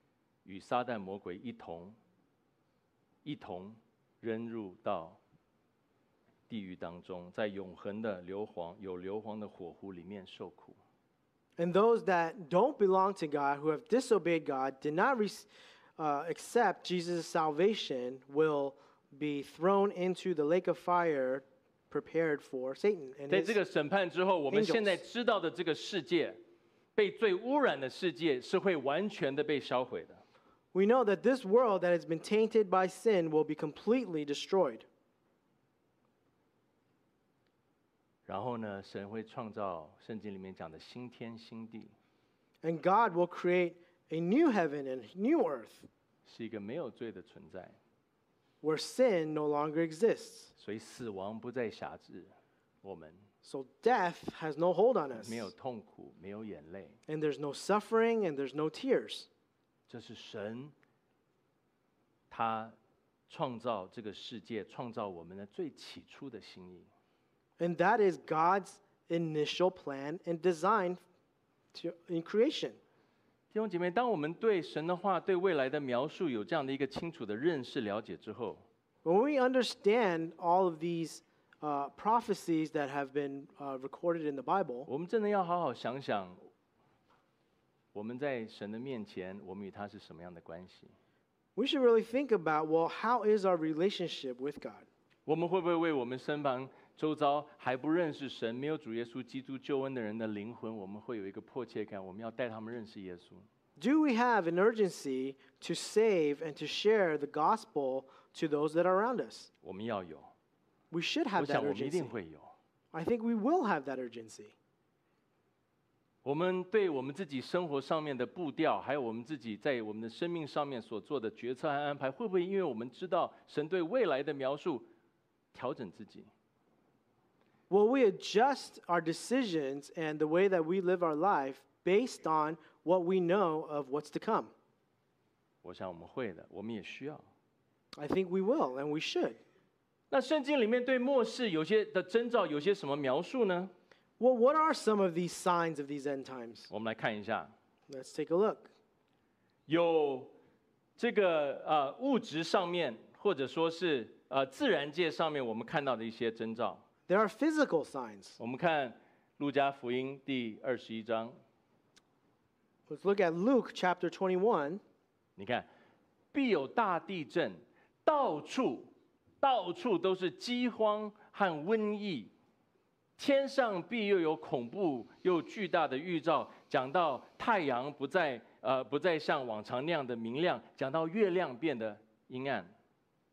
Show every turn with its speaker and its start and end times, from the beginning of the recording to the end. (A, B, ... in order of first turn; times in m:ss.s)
0:00.4-0:02.0 A
0:03.2-0:05.2 A
0:06.5-0:10.8 A
0:11.6-0:15.5 B
0:16.0-0:23.6 B
0:23.3-0:26.4 A
0:24.5-0:25.0 B
0:27.0-0:30.2 A
0:30.7-0:34.8 B
0:38.3-0:41.9 A
0:42.6-0:45.9 B
0:46.2-0:47.8 A
0:48.6-0:50.5 B
0:50.6-0:53.2 A
0:53.4-0:55.5 B
0:55.1-0:57.0 A
0:57.1-0:59.3 B
0:59.9-1:00.7 A
1:02.3-1:02.8 A
1:03.3-1:06.9 A
1:07.6-1:11.0 B
1:11.7-1:12.8 B
1:13.5-1:18.6 A
1:19.0-1:24.9 B
1:24.9-1:26.4 A
1:27.9-1:30.9 A
1:31.6-1:34.8 B
1:35.2-1:43.4 A
1:43.8-1:49.5 B
1:49.6-1:50.3 A
1:50.9-1:52.1 B
1:51.4-1:52.5 A
1:52.9-1:54.5 B
1:56.2-2:04.9 A
2:05.5-2:06.3 A
2:07.7-2:14.5 B
2:15.6-2:17.2 A
2:18.0-2:19.4 B
2:20.1-2:23.7 A
2:24.2-2:26.7 B
2:26.7-2:27.5 A
2:27.9-2:28.7 B
2:29.7-2:30.3 A
2:31.0-2:36.8 A
2:37.1-2:38.4 B
2:38.4-2:41.4 A
2:42.9-2:44.8 B
2:45.4-2:45.7 A
2:46.3-2:52.3 A
2:53.2-3:02.7 A